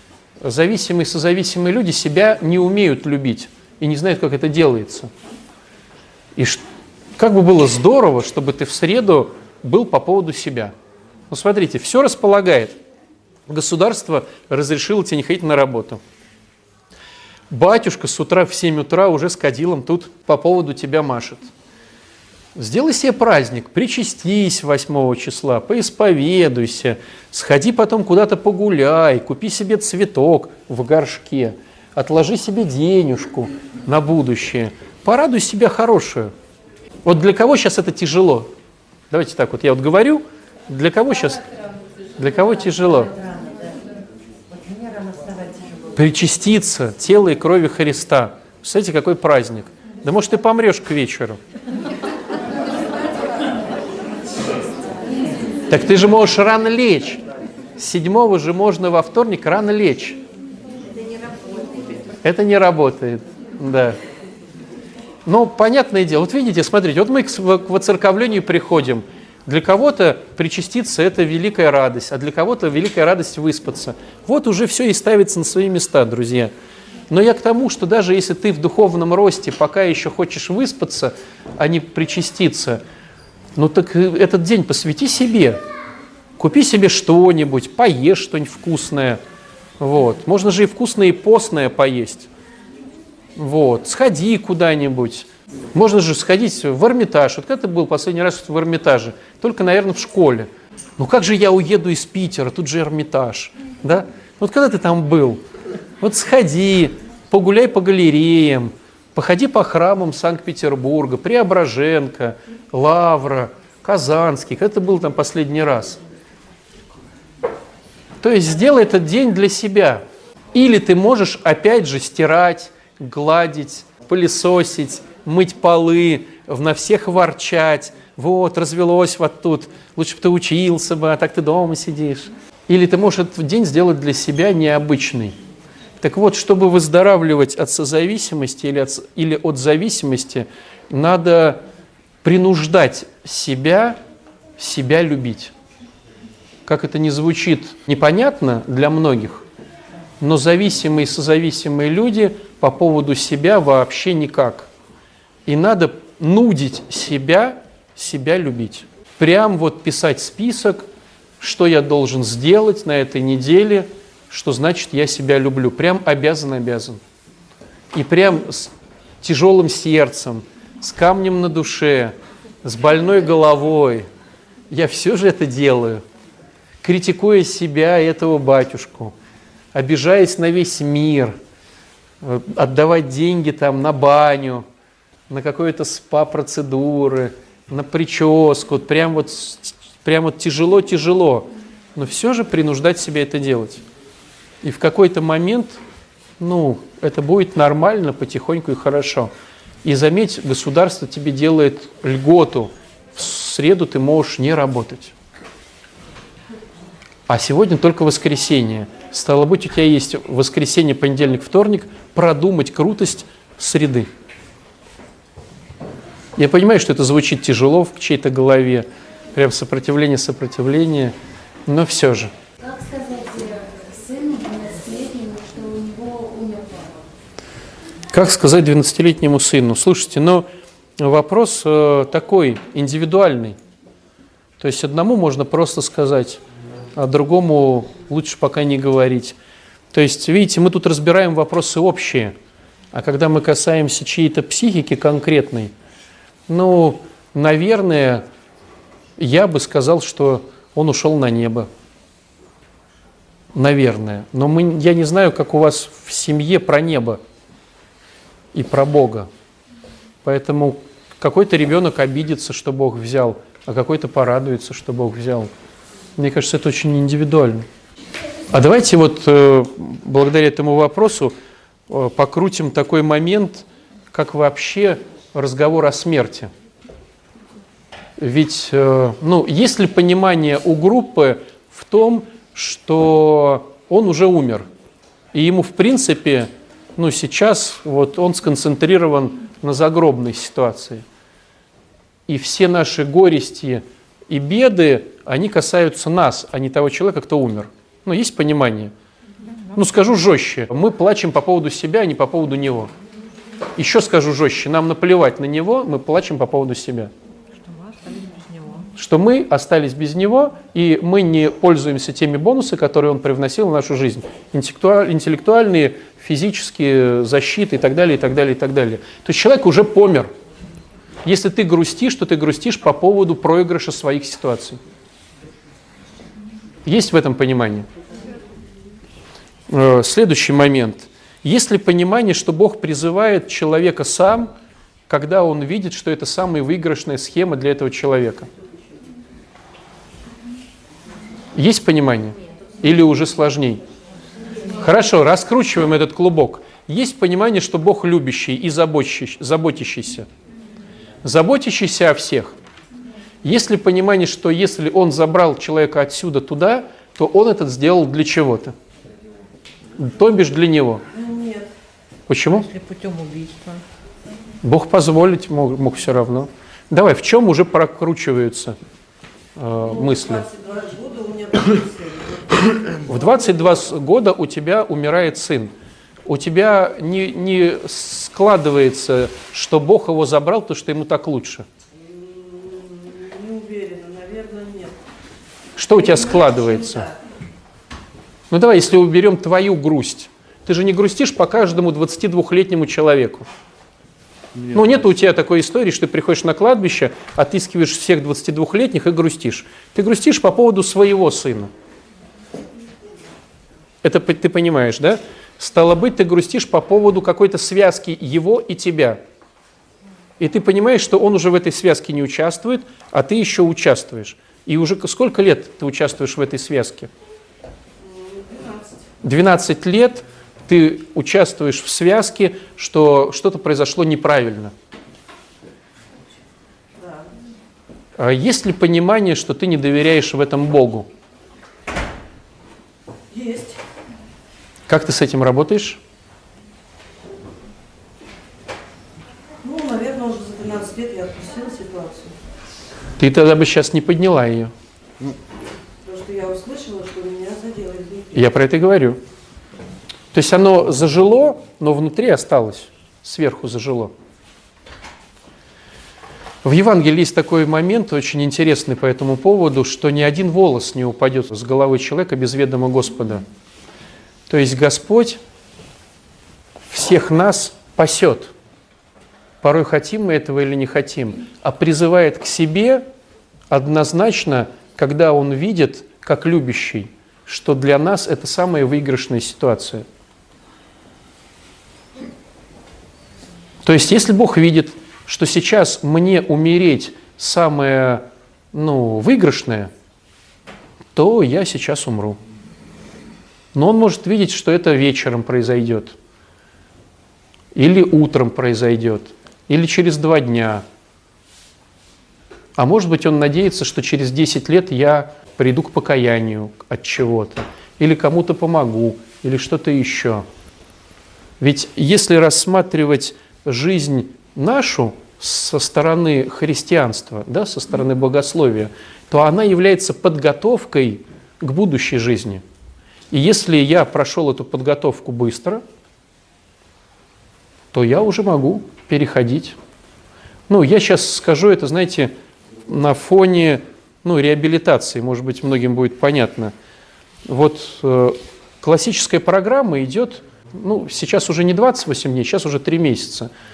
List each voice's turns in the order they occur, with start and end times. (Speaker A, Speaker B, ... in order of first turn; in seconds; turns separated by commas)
Speaker A: 0.4-5.1, Speaker A: 6.4-6.6, Speaker A: 7.2-10.7, Speaker A: 11.3-12.8, Speaker A: 13.5-16.0, Speaker A: 17.5-21.5, Speaker A: 22.6-36.3, Speaker A: 37.0-38.5, Speaker A: 39.1-41.4, Speaker A: 42.2-43.1, Speaker B: 42.9-43.8, Speaker B: 44.5-45.8, Speaker A: 46.0-51.4, Speaker A: 55.7-57.2, Speaker A: 57.8-60.2, Speaker A: 62.2-64.0, Speaker A: 65.3-76.5, Speaker A: 77.1-82.8, Speaker A: 83.5-85.6, Speaker A: 86.4-89.2, Speaker A: 89.8-92.3, Speaker A: 93.4-105.4, Speaker A: 106.0-116.0, Speaker A: 118.2-120.0, Speaker A: 120.5-135.3, Speaker A: 136.0-141.6, Speaker A: 142.2-144.0, Speaker A: 144.6-145.5, Speaker A: 146.7-149.4, Speaker A: 150.2-154.7, Speaker A: 155.5-160.9, Speaker A: 161.4-167.0, Speaker A: 167.9-174.1, Speaker A: 174.7-176.0, Speaker A: 176.8-179.1, Speaker A: 179.7-181.3, Speaker A: 182.2-184.7, Speaker A: 185.3-193.8, Speaker A: 194.6-195.8, Speaker A: 196.4-199.3, Speaker A: 199.8-205.1, Speaker A: 207.3-214.1, Speaker A: 216.4-221.1, Speaker A: 221.7-222.3, Speaker B: 222.6-227.0, Speaker A: 228.1-230.5, Speaker A: 231.0-233.6, Speaker A: 234.6-236.4, Speaker A: 237.0-239.4, Speaker A: 239.9-242.3, Speaker A: 242.9-245.7, Speaker A: 246.5-248.2, Speaker A: 249.2-251.7, Speaker A: 253.5-257.2, Speaker A: 258.5-259.3, Speaker A: 260.2-265.5, Speaker A: 266.2-267.7, Speaker A: 268.5-271.3, Speaker A: 271.9-276.5, Speaker A: 278.2-284.7, Speaker A: 285.3-291.0, Speaker A: 292.3-298.9, Speaker A: 299.8-302.9, Speaker A: 303.8-307.1, Speaker C: 307.5-308.9, Speaker A: 309.0-320.3, Speaker A: 321.2-324.8, Speaker A: 326.9-327.9, Speaker A: 329.7-334.5, Speaker A: 335.1-338.5, Speaker A: 341.6-343.8, Speaker A: 344.8-350.3, Speaker A: 351.2-352.6, Speaker A: 353.4-358.8, Speaker A: 360.0-361.0, Speaker C: 361.1-361.7, Speaker A: 362.3-362.7, Speaker C: 362.6-363.8, Speaker A: 364.6-368.8, Speaker A: 369.6-370.5, Speaker C: 369.8-373.8, Speaker A: 373.1-375.7, Speaker A: 376.3-381.6, Speaker C: 381.9-385.0, Speaker A: 385.8-387.1, Speaker C: 385.9-387.2, Speaker A: 388.5-393.5, Speaker A: 394.7-401.7, Speaker A: 404.0-409.2, Speaker A: 410.4-417.1, Speaker C: 418.0-419.0, Speaker A: 419.2-424.7, Speaker C: 427.0-427.3, Speaker A: 428.2-431.1, Speaker C: 433.3-433.8, Speaker A: 434.9-436.0, Speaker C: 439.6-442.4, Speaker A: 443.2-444.7, Speaker C: 446.0-448.4, Speaker A: 448.3-449.2, Speaker A: 450.3-454.1, Speaker A: 456.6-463.4, Speaker A: 464.5-465.4, Speaker A: 466.9-468.5, Speaker A: 469.6-473.1, Speaker A: 473.7-480.1, Speaker A: 483.8-489.9, Speaker A: 491.1-492.4, Speaker A: 493.7-496.2, Speaker A: 497.8-500.8, Speaker A: 502.8-510.4, Speaker A: 511.6-522.6, Speaker A: 523.3-525.8, Speaker A: 527.9-529.8, Speaker A: 530.7-532.3, Speaker A: 532.9-536.7, Speaker A: 537.5-543.5